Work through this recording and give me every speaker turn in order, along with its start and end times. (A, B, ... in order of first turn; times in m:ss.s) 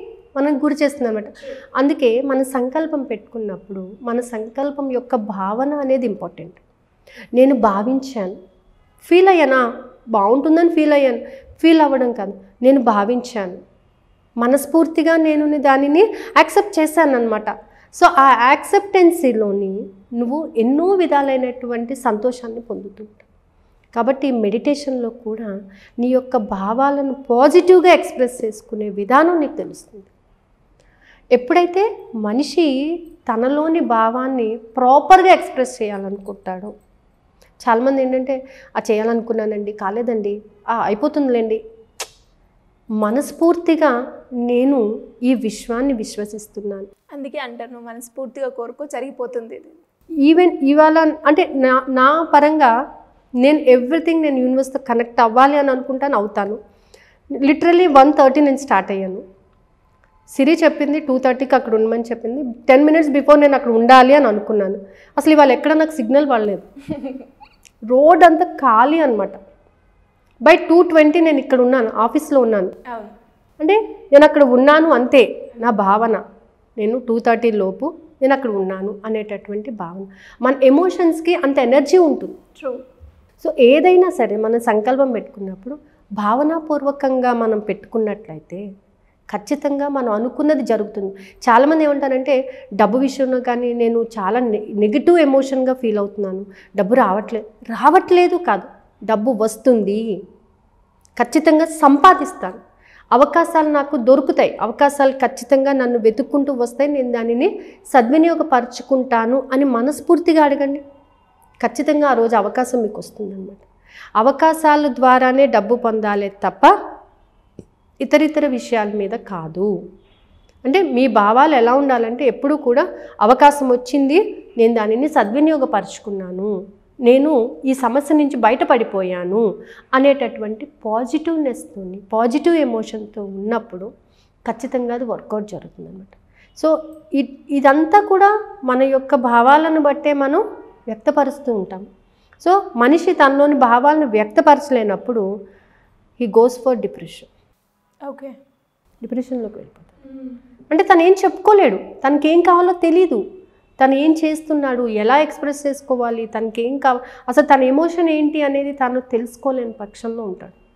0:00.4-0:06.6 A
0:07.4-0:08.3 A
0:09.0-0:09.6 A
0:10.2-0:13.6 A
0:14.4-0:23.2 A
0:24.0-0:30.1 A
0:31.3-0:32.7 A
0:33.3-0:36.7 A
0:37.6-0:41.6 A
0:43.0-0:43.9 A
0:44.5-0:46.9 A
0:47.1-0:49.8 B
0:50.2-0:52.7 A
0:53.4-0:56.6 A
0:57.4-0:59.2 A
1:00.3-1:06.6 A
1:06.9-1:07.2 B
1:07.9-1:09.4 A
1:10.4-1:12.7 A
1:12.9-1:13.1 B
1:13.6-1:16.2 A
1:16.8-1:22.3 A
1:23.4-1:28.6 A
1:29.3-1:40.1 A
1:41.2-1:42.6 A
1:43.1-1:50.8 A
1:51.6-1:53.6 A
1:54.2-1:56.7 A
1:58.0-1:59.7 A
2:00.6-2:06.5 A
2:07.1-2:09.4 A
2:10.0-2:13.9 A
2:14.5-2:21.8 A
2:22.4-2:25.2 A
2:26.2-2:27.3 A
2:28.1-2:28.3 B
2:29.0-2:29.9 A
2:30.7-2:33.2 A
2:33.8-2:40.6 A